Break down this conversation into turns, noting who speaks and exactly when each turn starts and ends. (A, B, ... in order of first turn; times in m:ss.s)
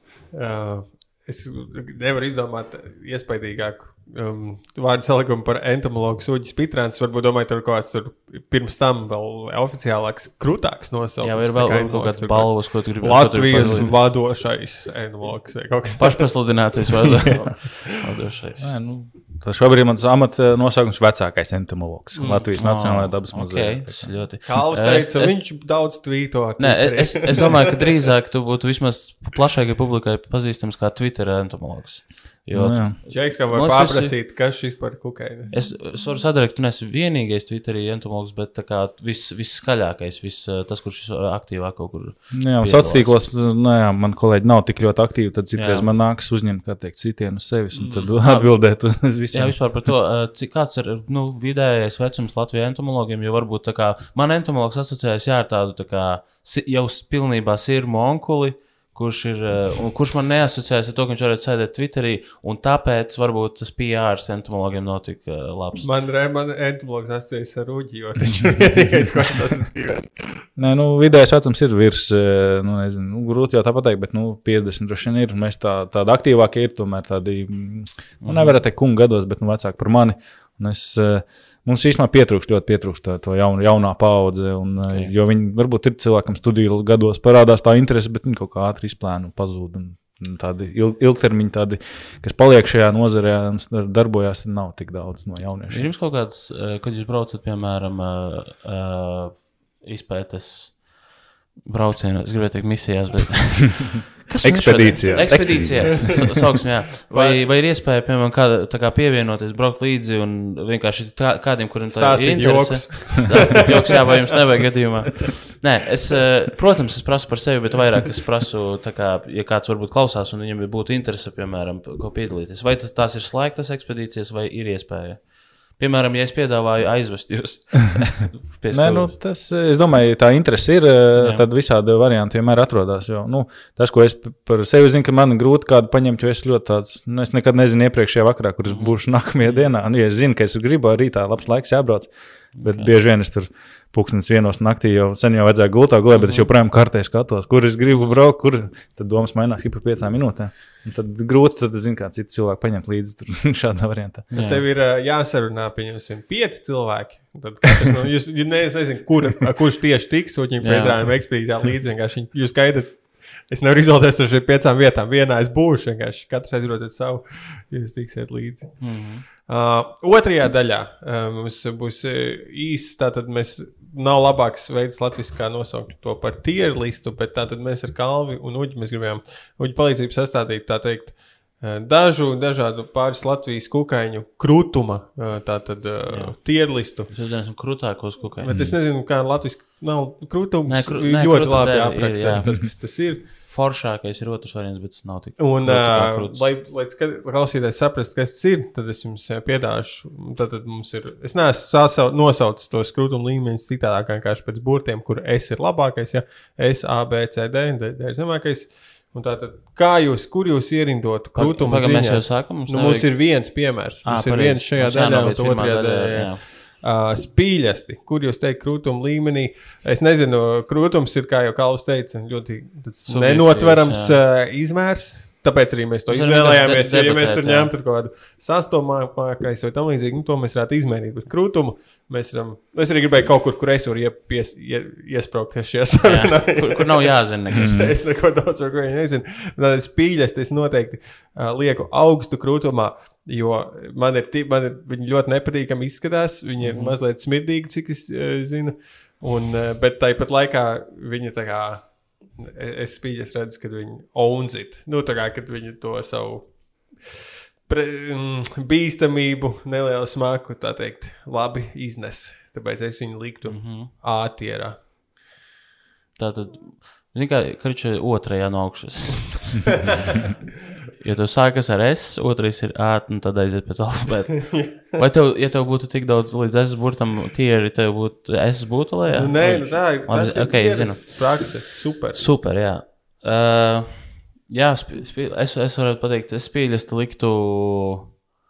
0:00.3-0:16.7 A
0:11.2-0:14.0 B
0:13.6-0:13.9 C
0:16.0-0:18.7 B
0:18.6-0:24.3 C
0:22.1-0:22.5 A
0:22.5-0:25.4 B
0:24.4-0:27.9 A
0:26.6-0:34.2 B
0:32.5-0:33.0 C
0:33.0-0:35.6 A
0:35.5-0:43.3 B
0:42.3-0:49.8 C
0:45.6-0:45.9 B
0:47.7-0:48.1 A
0:48.1-1:05.9 B
1:05.8-1:10.5 A
1:10.6-1:35.9 C
1:18.2-1:18.6 B
1:24.9-1:25.1 B
1:35.7-1:40.9 B
1:41.6-2:09.2 B
1:44.4-1:46.4 C
1:47.1-1:47.4 A
1:51.9-1:53.6 A
2:08.7-2:34.3 C
2:11.2-2:11.4 B
2:18.7-2:19.7 B
2:22.5-2:22.9 B
2:26.1-2:26.5 B
2:27.9-2:28.2 B
2:34.3-2:34.6 B
2:34.3-3:07.1 A
2:40.6-2:41.2 B
2:48.8-2:49.2 B
3:06.1-3:08.6 B
3:08.4-3:13.3 A
3:08.5-3:08.8 C
3:10.6-3:16.4 B
3:15.4-4:17.1 A
3:31.3-3:33.5 B
3:34.0-3:36.4 B
3:43.1-3:44.2 B
3:46.1-3:47.7 B
3:56.0-3:57.8 B
3:57.6-3:57.9 C
4:06.6-4:07.0 B
4:17.6-4:24.8 A
4:23.4-4:23.9 B
4:26.2-4:29.8 B
4:31.0-4:48.2 B
4:34.5-4:34.8 A
4:39.1-4:42.3 A